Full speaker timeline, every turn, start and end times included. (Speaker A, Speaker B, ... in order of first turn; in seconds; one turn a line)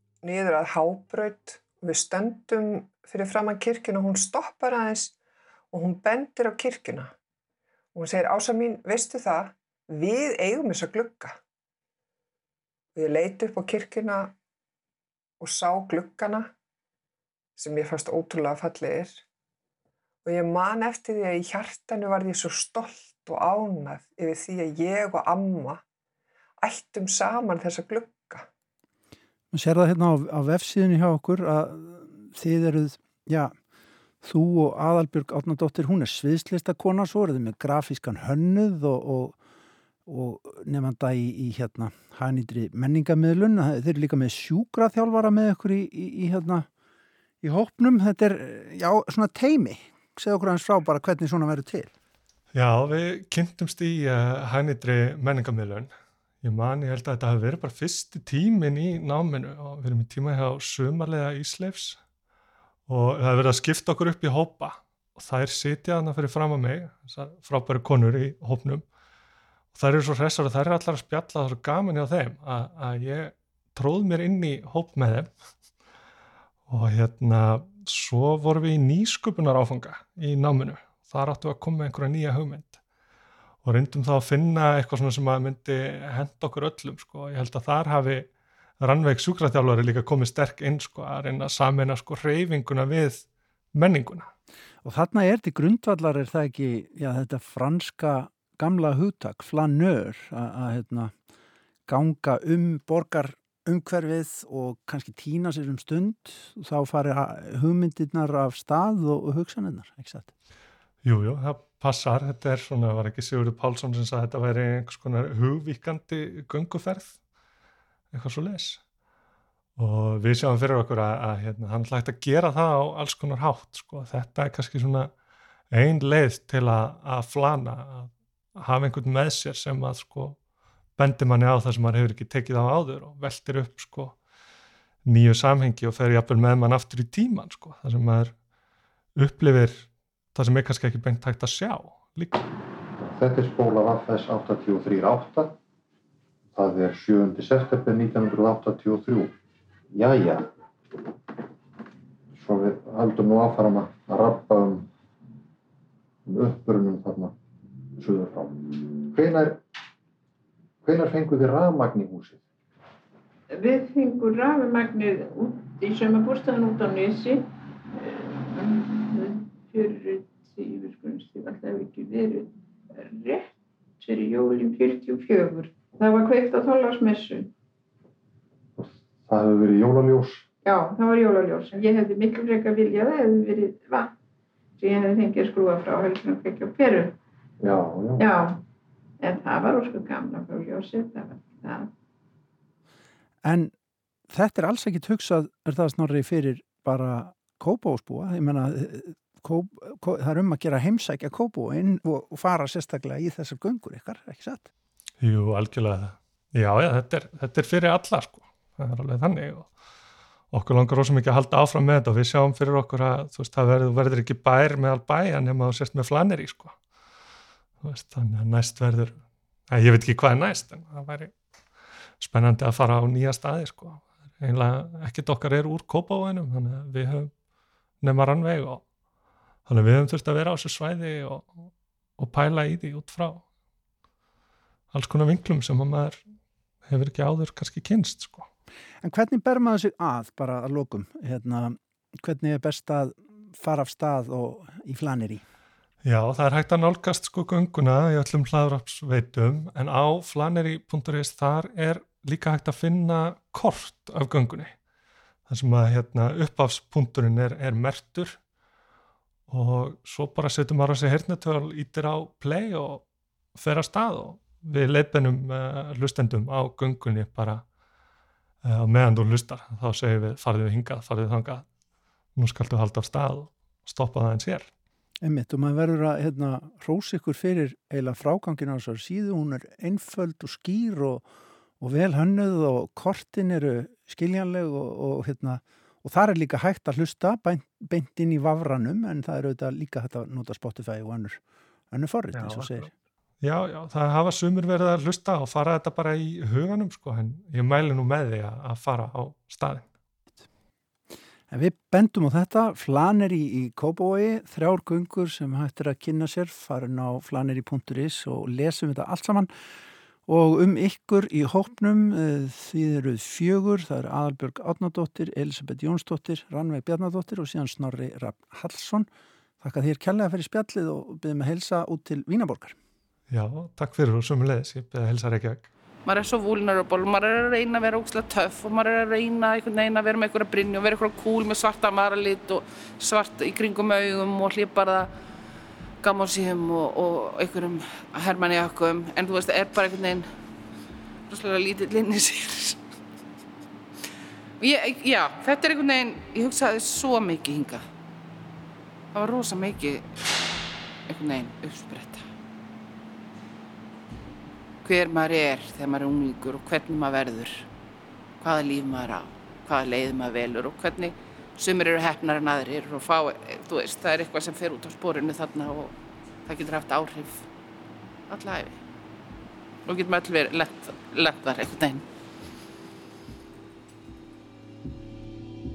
Speaker A: 0.2-5.1
Speaker A: 5.7-7.1
Speaker A: 7.9-11.4
Speaker A: 12.9-14.3
Speaker A: 15.4-16.5
Speaker A: 17.6-19.2
Speaker A: 20.2-25.8
Speaker A: 26.6-28.5
Speaker B: 29.5-33.5
Speaker B: 34.2-39.4
Speaker B: 40.0-46.7
Speaker B: 47.4-51.9
Speaker C: 52.5-62.0
Speaker C: 62.9-68.8
Speaker C: 69.7-75.3
Speaker C: 76.7-82.8
Speaker C: 83.6-94.3
Speaker B: 94.8-101.1
Speaker B: 101.9-110.3
Speaker C: 111.0-117.2
Speaker C: 118.1-118.8
Speaker C: 119.8-125.1
Speaker C: 125.7-130.4
Speaker C: 131.0-134.2
Speaker C: 135.1-138.4
Speaker C: 139.2-142.4
Speaker D: 143.0-145.6
Speaker D: 146.5-149.3
Speaker D: 149.9-150.5
Speaker D: 152.3-154.9
Speaker D: 156.2-157.3
Speaker D: 158.0-159.6
Speaker D: 160.8-162.4
Speaker E: 163.5-177.5
Speaker D: 178.8-180.5
Speaker E: 180.6-184.1
Speaker E: 184.8-187.2
Speaker D: 187.6-188.3
Speaker E: 188.2-188.6
Speaker E: 189.2-191.9
Speaker B: 193.4-193.7
Speaker B: 194.3-204.7
Speaker C: 205.2-209.7
Speaker C: 210.5-216.8
Speaker C: 217.8-221.3
Speaker C: 222.2-227.3
Speaker C: 228.0-228.8
Speaker C: 229.7-231.7
Speaker C: 232.2-233.4
Speaker C: 234.9-236.2
Speaker C: 236.8-238.5
Speaker B: 239.0-245.4
Speaker C: 246.0-254.8
Speaker C: 255.5-258.4
Speaker C: 259.5-267.6
Speaker C: 268.6-271.7
Speaker C: 272.4-274.7
Speaker B: 275.2-281.2
Speaker B: 281.8-292.9
Speaker C: 292.4-292.7
Speaker C: 293.4-299.9
Speaker B: 301.5-309.5
Speaker B: 310.3-319.1
Speaker B: 319.6-322.8
Speaker C: 323.3-325.6
Speaker F: 326.1-335.1
Speaker F: 336.0-340.3
Speaker F: 341.3-342.8
Speaker F: 344.6-347.8
Speaker F: 349.1-350.3
Speaker F: 351.1-352.2
Speaker F: 354.8-357.7
Speaker F: 358.4-367.5
Speaker F: 368.3-368.8
Speaker F: 369.9-372.0